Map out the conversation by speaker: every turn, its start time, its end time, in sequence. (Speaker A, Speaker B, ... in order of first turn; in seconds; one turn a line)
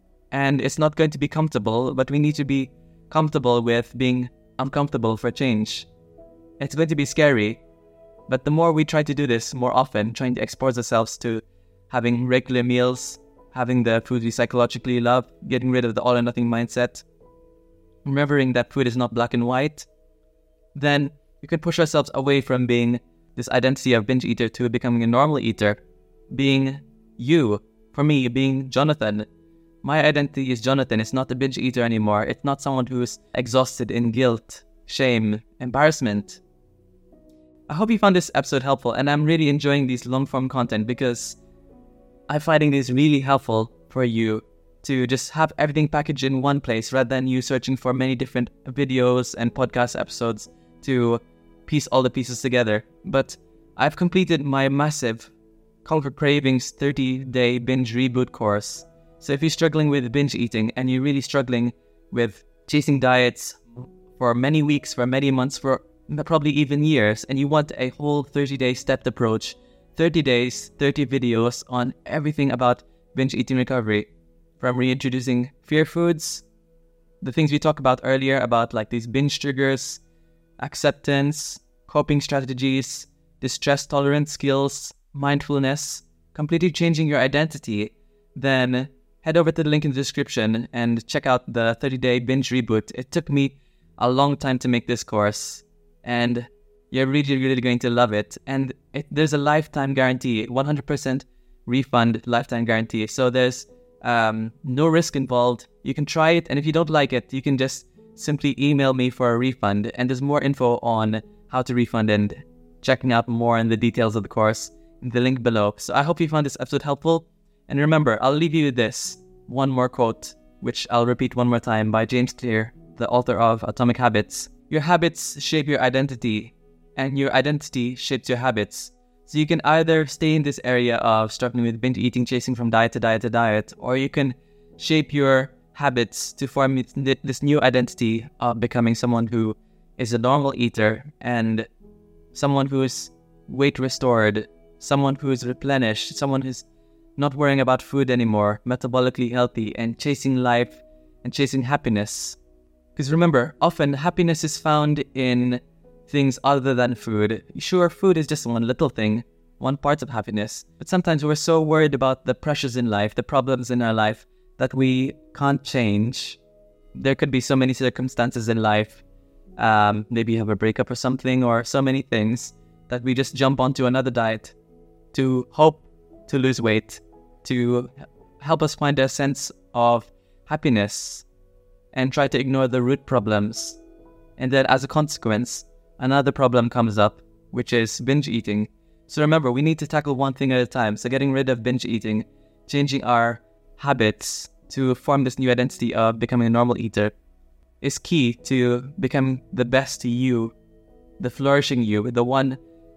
Speaker A: 0.3-5.9
Speaker A: 6.6-7.6
Speaker A: 8.3-17.0
Speaker A: 18.0-19.9
Speaker A: 20.7-25.8
Speaker A: 26.3-29.3
Speaker A: 29.8-36.4
Speaker A: 37.7-41.4
Speaker A: 42.3-55.3
Speaker A: 55.8-76.4
Speaker A: 77.2-80.0
Speaker A: 80.6-141.7
Speaker A: 142.3-146.6
Speaker A: 147.2-152.4
Speaker A: 152.9-166.4
Speaker A: 166.9-169.0
Speaker A: 169.6-174.5
Speaker A: 175.1-181.2
Speaker A: 181.9-183.8
Speaker A: 184.4-197.1
Speaker A: 197.8-200.5
Speaker A: 201.2-202.6